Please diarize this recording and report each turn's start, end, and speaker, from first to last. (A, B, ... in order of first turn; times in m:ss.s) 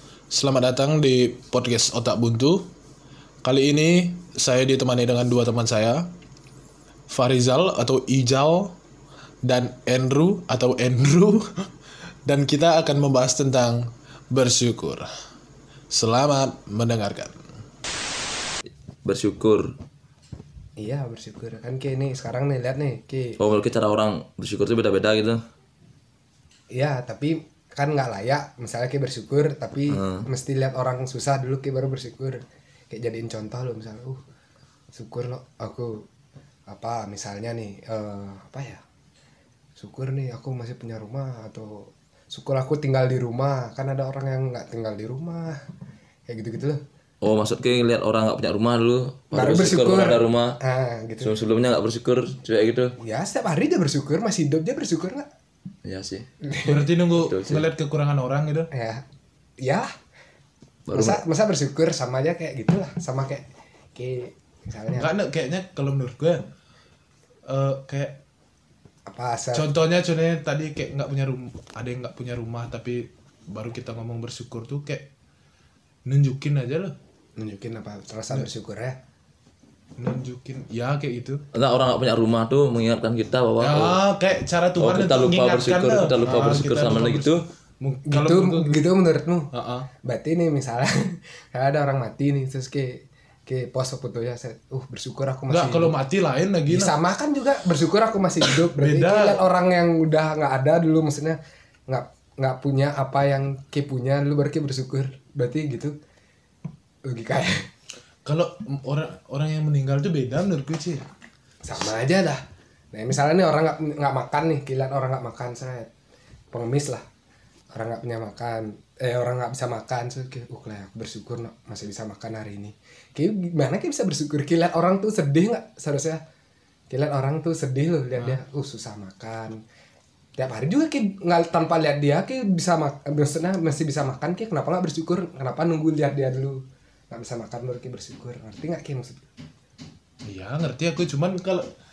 0:00.3-0:02.7 A
0:03.4-0:06.1 A
0:07.1-0:08.7 A
0:09.4-0:11.7 A
0:12.2-0:15.1 A
0:15.9-0:17.4 A
0:19.0-0:19.7 B
0:20.8-0:23.4 C
0:23.4-0:25.4 B
0:26.7-0:34.2 C
0:29.9-0:30.3 B
0:34.9-0:36.0 C
0:36.7-0:38.8 C
0:39.8-0:45.6 C
0:46.3-0:46.8 C
0:47.2-0:50.6 B
0:49.3-0:51.3 C
0:51.2-0:53.0 B
0:53.0-0:55.2 C
0:55.8-0:56.3 B
0:56.4-0:57.0 C
0:56.6-0:58.7 A
0:57.2-0:57.7 B
0:58.7-0:59.0 C
0:59.6-0:59.9 C
1:00.9-1:01.2 B
1:00.9-1:05.1 C
1:04.9-1:06.4 A
1:07.5-1:08.2 A
1:09.1-1:09.7 C
1:09.5-1:15.1 A
1:16.1-1:17.0 A
1:17.4-1:19.0 C
1:20.0-1:21.4 A
1:21.5-1:24.0 B
1:23.6-1:28.9 A
1:24.8-1:27.4 B
1:28.1-1:29.5 C
1:29.5-1:29.9 A
1:30.0-1:36.0 C
1:35.5-1:37.0 A
1:36.7-1:45.9 C
1:38.4-1:39.4 A
1:47.1-1:47.7 C
1:48.2-1:51.0 A
1:51.6-1:52.4 C
1:52.9-1:55.9 C
1:56.5-1:57.0 C
1:57.7-2:06.2 C
2:06.9-2:09.6 C
2:10.4-2:19.3 C
2:20.2-2:21.7 A